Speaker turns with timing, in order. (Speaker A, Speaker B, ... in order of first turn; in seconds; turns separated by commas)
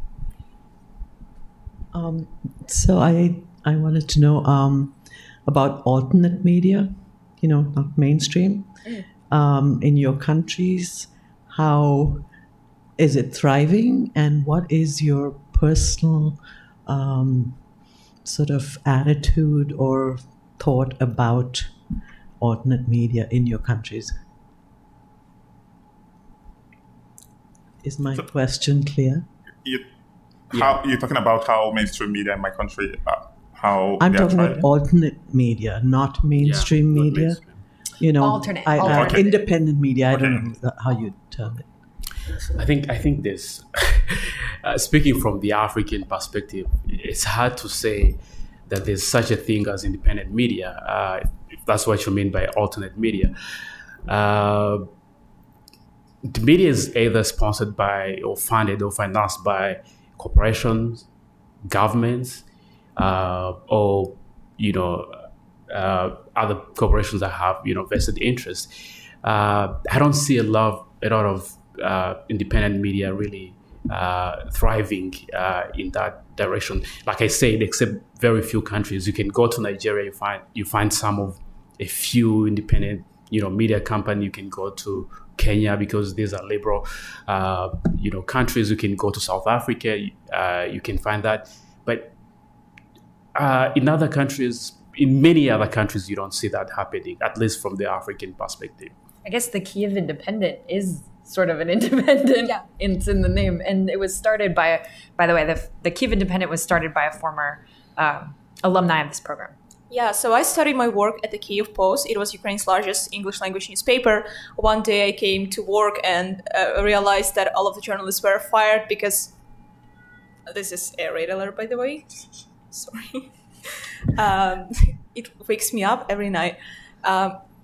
Speaker A: 1.9-12.3, Speaker A: 13.0-24.3, Speaker A: 27.8-29.3, Speaker B: 30.5-34.7, Speaker C: 30.5-30.8, Speaker A: 34.0-41.8, Speaker C: 36.4-37.6, Speaker D: 38.2-39.4, Speaker B: 38.8-40.5, Speaker C: 42.5-53.3, Speaker C: 54.1-54.9, Speaker C: 56.2-61.1, Speaker C: 61.6-62.4, Speaker C: 63.0-92.1, Speaker C: 93.3-98.9, Speaker D: 99.2-109.5, Speaker E: 109.9-119.3, Speaker E: 120.5-127.4